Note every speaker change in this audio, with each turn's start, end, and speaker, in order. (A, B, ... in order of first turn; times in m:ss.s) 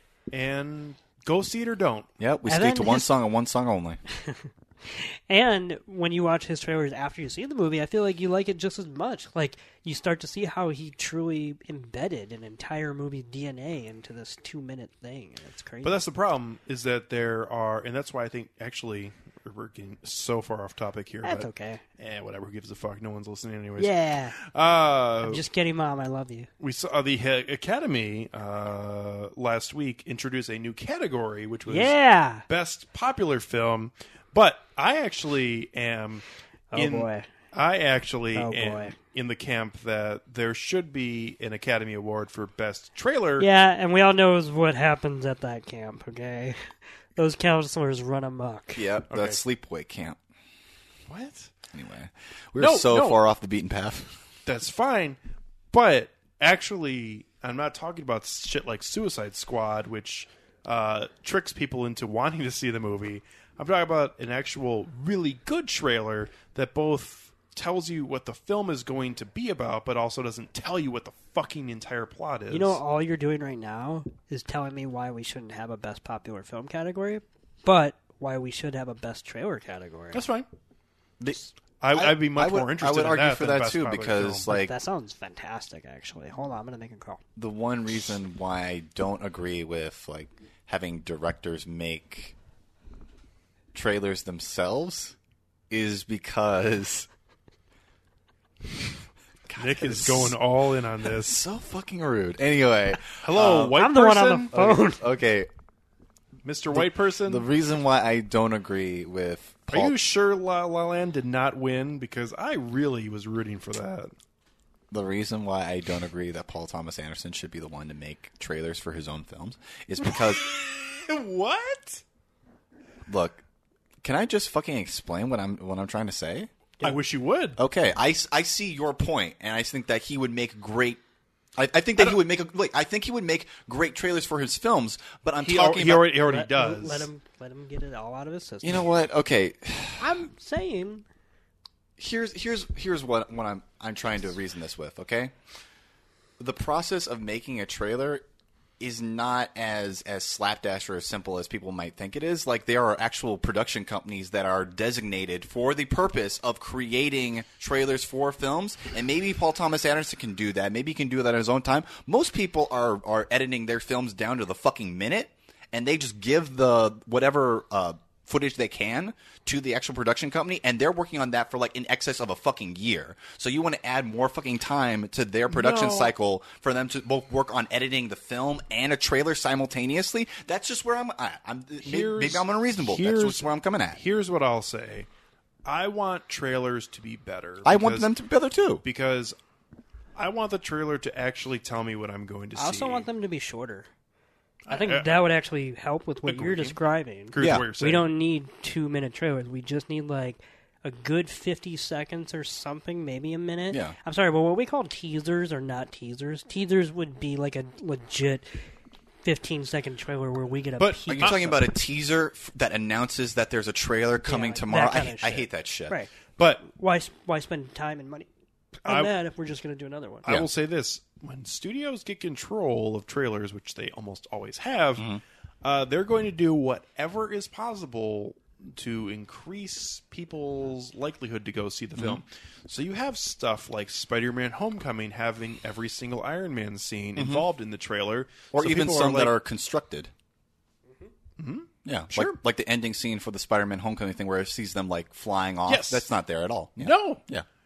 0:00.3-0:02.1 A
0:02.2-0:04.0 B
0:02.5-0:03.1 C
0:04.2-0:16.0 C
0:15.8-0:25.4 A
0:21.2-0:21.8 C
0:23.8-0:24.4 C
0:25.2-0:26.5 C
0:26.6-0:32.0 A
0:31.7-0:32.5 C
0:32.5-0:43.5 A
0:36.7-0:37.3 C
0:38.3-0:39.0 C
0:43.4-0:48.8 C
0:48.8-0:50.2 B
0:49.1-0:49.4 A
0:51.1-0:51.5 A
0:51.7-0:54.2 B
0:52.6-0:53.2 A
0:54.5-0:55.2 A
0:55.7-1:12.8 A
1:12.5-1:20.3 C
1:20.1-1:20.5 A
1:21.2-1:24.8 B
1:21.8-1:24.5 A
1:24.5-1:27.2 C
1:27.4-1:32.4 B
1:33.7-1:35.2 B
1:35.7-1:37.1 B
1:39.5-1:40.4 B
1:39.6-1:41.4 A
1:41.0-1:43.8 B
1:43.2-1:44.6 A
1:43.7-1:45.0 C
1:44.5-1:45.5 B
1:46.4-1:47.4 A
1:46.7-1:50.0 B
1:49.7-1:54.1 A
1:54.9-2:00.4 B
2:00.0-2:02.0 A
2:03.1-2:03.4 B
2:04.0-2:06.5 B
2:06.8-2:07.6 A
2:07.6-2:11.0 B
2:11.6-2:16.1 B
2:15.4-2:17.1 A
2:16.2-2:18.9 C
2:18.6-2:20.3 B
2:20.0-2:21.1 C
2:22.0-2:25.3 B
2:26.4-2:28.2 B
2:28.8-3:04.0 B
2:55.5-2:56.1 A
3:01.8-3:05.1 A
3:05.6-3:08.1 A
3:07.6-3:08.8 B
3:08.8-3:09.4 A
3:10.2-3:13.1 A
3:12.6-3:13.9 C
3:14.7-3:15.2 A
3:14.7-3:28.6 C
3:16.2-3:16.8 A
3:17.3-3:18.1 A
3:17.4-3:17.7 B
3:23.7-3:24.0 B
3:29.2-3:31.6 C
3:30.8-3:31.4 A
3:30.9-3:36.0 B
3:34.2-3:36.1 C
3:36.4-3:36.7 A
3:36.6-3:40.3 C
3:38.9-3:39.1 A
3:40.2-3:45.1 A
3:45.6-3:59.4 A
3:52.0-3:52.2 B
3:57.2-3:57.5 B
3:58.5-4:00.1 B
4:01.4-4:02.4 A
4:01.8-4:07.5 B
4:05.7-4:06.1 A
4:06.8-4:07.2 A